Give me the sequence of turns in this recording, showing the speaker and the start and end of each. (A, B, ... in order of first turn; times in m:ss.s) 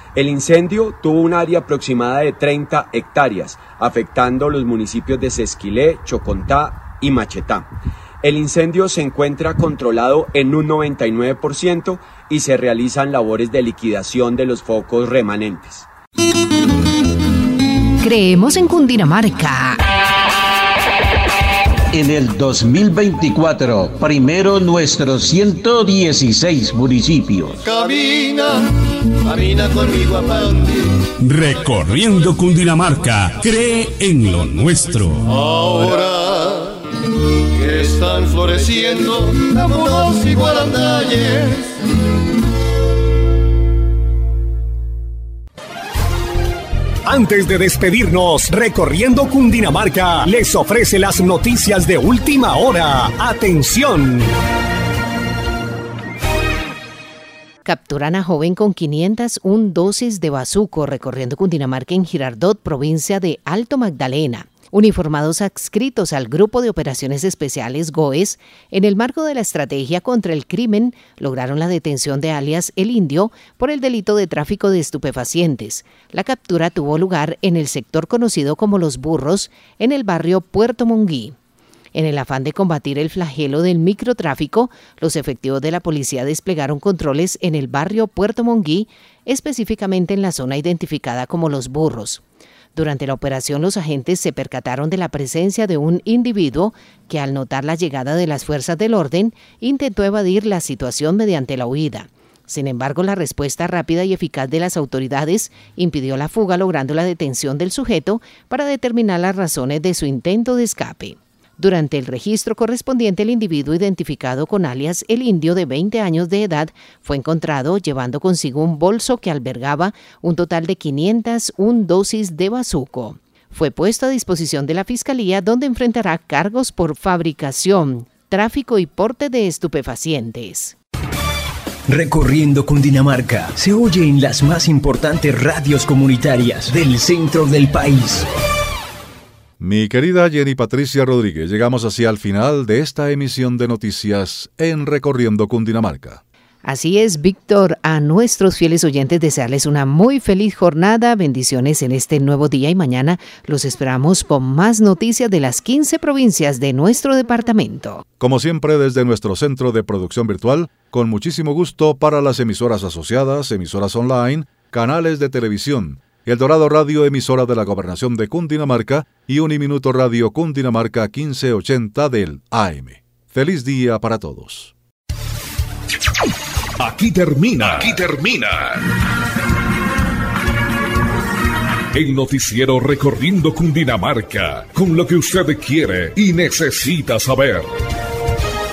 0:00.2-0:07.7 A
0:08.2-0:15.9 A
0:18.0-0:19.8 B
0:21.9-0:27.6 C
0:27.6-0:28.6 D
0:29.2-0:30.8 D
0:31.5-0:35.0 E
0:35.2-0:36.7 D
0:37.5-0:41.6 D
0:47.1-0:54.3 F
0:57.6-1:21.4 B
1:22.0-1:32.2 B
1:32.8-2:10.8 B
2:12.0-2:18.1 G
2:19.6-2:26.2 H
2:26.6-2:38.0 B
2:38.2-2:54.7 H
2:56.8-2:58.8 I
3:01.9-3:07.7 I